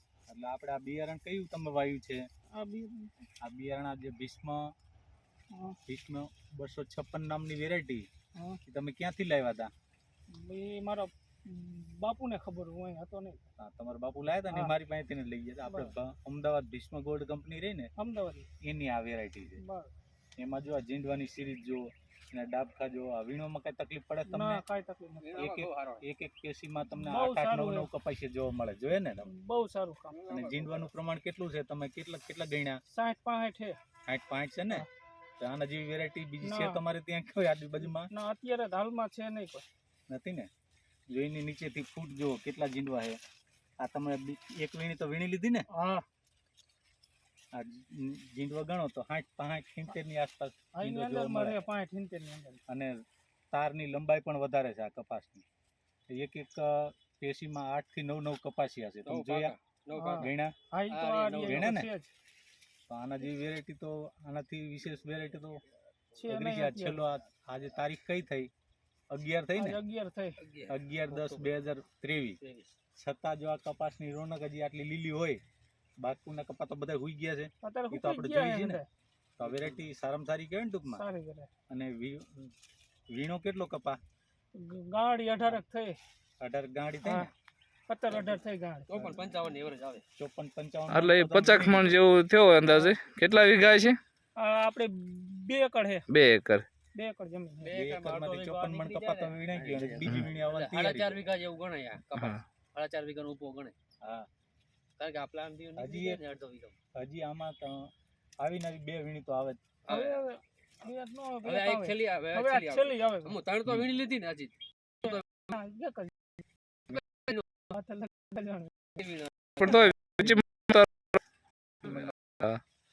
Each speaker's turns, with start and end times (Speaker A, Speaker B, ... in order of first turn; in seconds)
Speaker A: 0.3-2.2, 3.4-4.7, 5.8-8.1, 8.6-9.7, 13.6-17.9, 18.6-19.6, 20.4-24.6, 25.4-29.3, 30.3-32.8, 34.1-34.9, 35.4-38.1, 40.1-40.5, 41.1-43.2, 43.8-45.7, 47.5-51.6, 52.7-53.0, 53.5-55.4, 56.1-59.5, 60.1-60.5, 61.4-61.9, 62.9-65.6, 66.3-68.5, 69.1-69.8, 70.7-72.4, 73.0-75.4, 76.0-78.8, 79.4-81.0, 81.7-82.5, 83.1-84.0, 86.4-87.3, 88.9-89.3, 90.2-92.0, 97.7-101.2, 105.8-106.2, 107.0-107.9, 108.4-109.6
Speaker B: 2.6-3.1, 10.3-13.5, 15.7-15.9, 17.9-18.5, 19.6-19.9, 24.3-25.4, 27.0-27.9, 29.2-30.1, 32.9-33.8, 36.4-36.8, 37.8-39.6, 45.7-46.0, 50.7-52.6, 59.9-62.1, 66.2-67.0, 69.5-70.3, 77.6-78.8, 80.9-81.5, 84.5-86.0, 87.0-87.3, 87.9-88.9, 92.6-92.9, 94.3-96.0, 96.9-97.8, 109.9-113.4, 115.0-116.1, 117.7-118.9
Speaker C: 25.2-26.0, 30.1-30.9, 59.0-60.3, 60.9-61.8, 70.4-71.5, 72.4-72.7, 79.4-79.8, 88.1-90.0, 97.6-103.7, 105.0-106.7, 109.8-110.2, 111.4-115.5, 116.9-117.5, 119.0-119.9, 121.8-122.1
Speaker D: 90.9-94.0, 96.1-96.6, 102.2-102.4, 119.6-120.9, 121.8-122.6